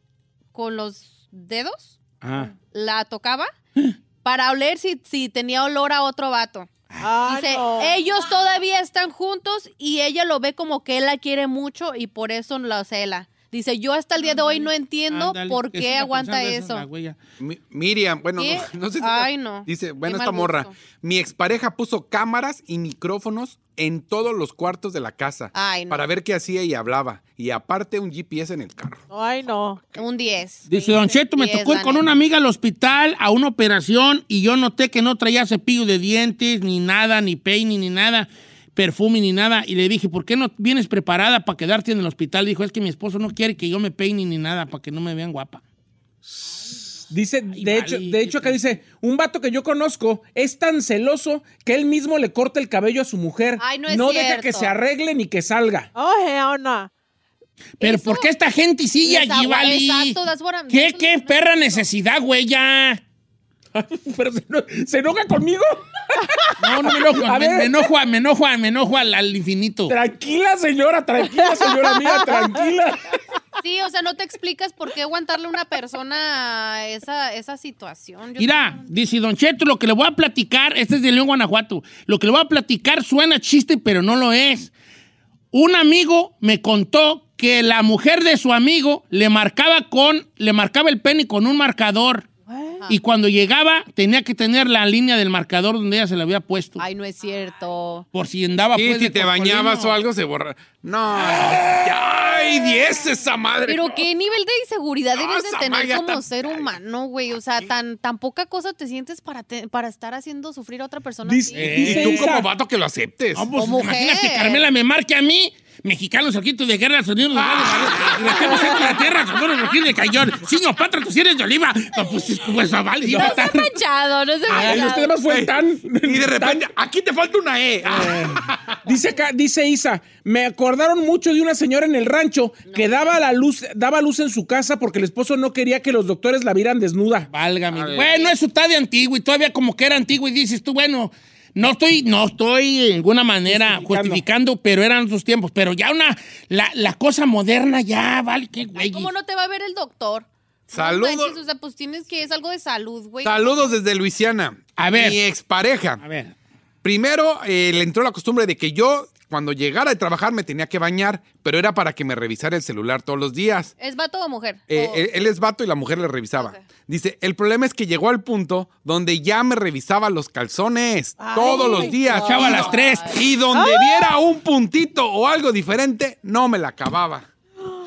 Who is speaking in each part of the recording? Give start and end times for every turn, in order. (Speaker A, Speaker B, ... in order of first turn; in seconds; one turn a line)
Speaker A: 0.5-2.0
Speaker B: 2.2-2.5
Speaker A: 2.7-3.5
Speaker A: 4.2-6.7
Speaker B: 6.9-7.2
Speaker C: 7.0-8.0
Speaker A: 7.2-16.9
Speaker B: 15.1-17.2
Speaker D: 17.4-29.0
Speaker A: 18.4-20.7
Speaker A: 25.5-26.1
Speaker C: 29.1-29.8
Speaker A: 29.9-32.0
Speaker B: 30.7-45.6
Speaker E: 47.1-55.9
Speaker B: 47.5-48.6
Speaker A: 53.6-54.8
Speaker C: 56.0-56.9
Speaker B: 57.8-63.0
Speaker A: 57.8-58.3
Speaker A: 59.0-61.9
Speaker E: 63.8-67.8
Speaker B: 66.6-70.0
Speaker E: 69.9-73.2
Speaker A: 73.6-78.9
Speaker B: 78.4-84.7
Speaker B: 85.5-92.3
Speaker C: 92.5-92.8
Speaker B: 92.9-96.8
Speaker A: 96.8-98.1
Speaker B: 98.1-100.0
Speaker D: 98.7-104.1
Speaker B: 101.2-101.7
Speaker A: 103.7-112.2
Speaker D: 105.2-106.8
Speaker E: 111.2-112.5
Speaker B: 111.5-112.3
Speaker D: 111.8-113.5
Speaker B: 113.3-123.7
Speaker A: 113.5-114.7
Speaker D: 117.4-118.3
Speaker E: 123.1-123.4
Speaker A: 123.1-125.1
Speaker E: 124.5-126.7
Speaker D: 125.2-128.8
Speaker E: 127.9-137.3
Speaker A: 132.7-133.2
Speaker B: 137.3-149.1
Speaker D: 137.7-138.1
Speaker A: 137.9-138.3
Speaker E: 143.5-144.2
Speaker A: 148.8-153.7
Speaker D: 150.7-151.4
Speaker D: 153.2-156.0
Speaker B: 154.8-155.2
Speaker B: 156.0-156.3
Speaker D: 156.8-163.7
Speaker A: 163.8-165.1
Speaker D: 164.7-177.3
Speaker A: 166.4-166.7
Speaker C: 171.2-172.7
Speaker A: 171.6-173.1
Speaker B: 172.1-173.2
Speaker C: 173.5-174.2